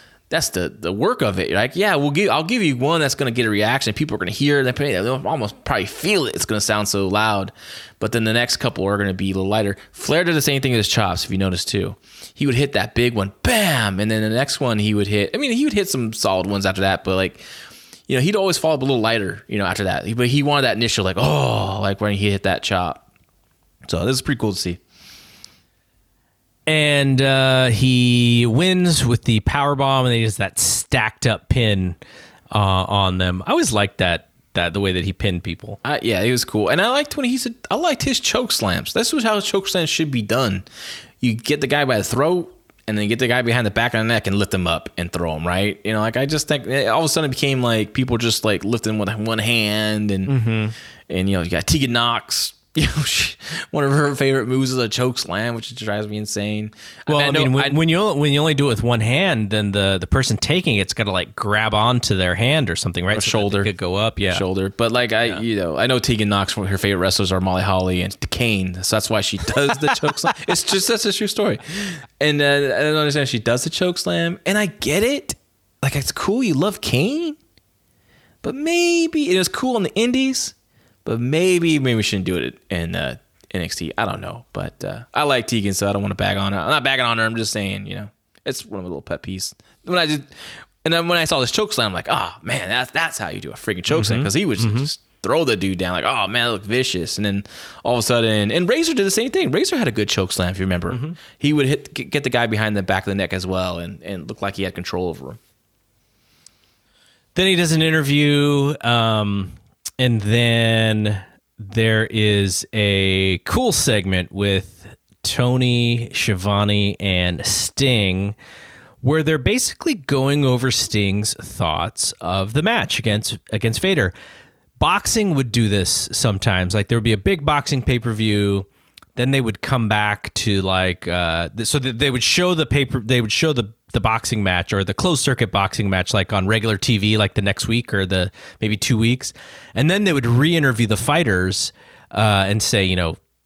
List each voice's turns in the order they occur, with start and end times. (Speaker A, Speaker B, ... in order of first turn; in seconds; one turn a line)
Speaker A: 0.3-17.4
Speaker A: 18.1-23.0
Speaker A: 23.9-24.8
Speaker B: 26.7-32.0
Speaker B: 32.5-35.8
Speaker A: 35.8-40.6
Speaker A: 41.2-50.3
Speaker B: 50.3-50.7
Speaker A: 51.1-57.8
Speaker B: 57.1-64.4
Speaker A: 63.1-63.7
Speaker A: 64.2-77.4
Speaker A: 78.4-80.5
Speaker A: 81.0-105.4
Speaker B: 93.9-94.9
Speaker B: 100.9-101.2
Speaker B: 107.3-118.3
Speaker B: 119.0-124.1
Speaker B: 124.8-143.2